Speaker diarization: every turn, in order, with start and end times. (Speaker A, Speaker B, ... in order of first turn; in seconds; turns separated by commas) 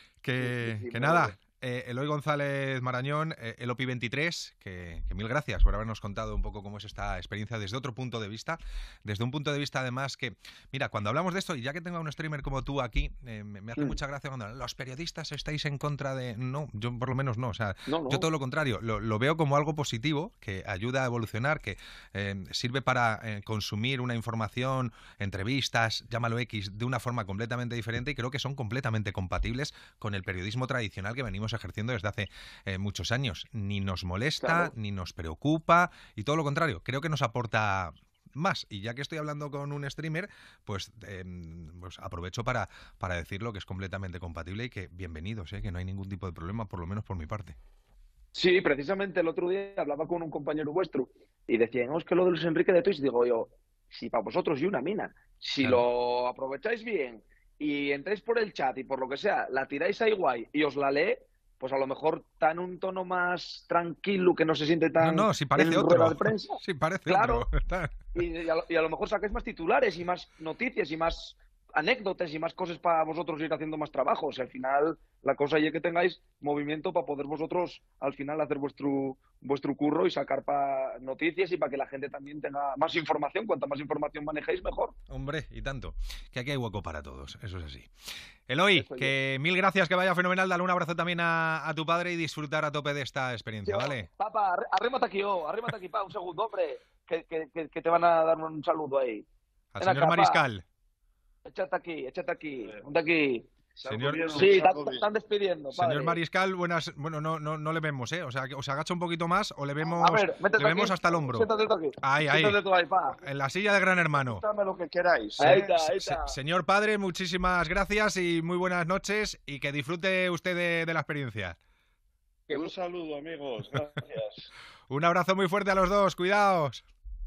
Speaker A: 0.2-47.6, Speaker B: 0.4-1.4, Speaker B: 17.9-18.3, Speaker B: 34.4-34.7, Speaker B: 48.3-67.5, Speaker A: 55.6-55.9, Speaker A: 65.0-68.1, Speaker B: 68.1-85.0, Speaker A: 85.1-87.9, Speaker A: 88.5-94.1, Speaker B: 88.7-89.2, Speaker B: 93.7-99.3, Speaker A: 99.8-100.7, Speaker B: 99.8-100.4, Speaker B: 101.5-103.5, Speaker C: 103.8-105.0, Speaker A: 103.9-104.5, Speaker B: 104.3-106.2, Speaker A: 105.7-111.5, Speaker B: 109.8-113.2, Speaker A: 112.0-112.6, Speaker A: 113.2-114.4, Speaker C: 114.2-115.8, Speaker B: 115.4-116.4, Speaker A: 115.4-121.6, Speaker C: 122.5-124.5, Speaker A: 124.9-126.8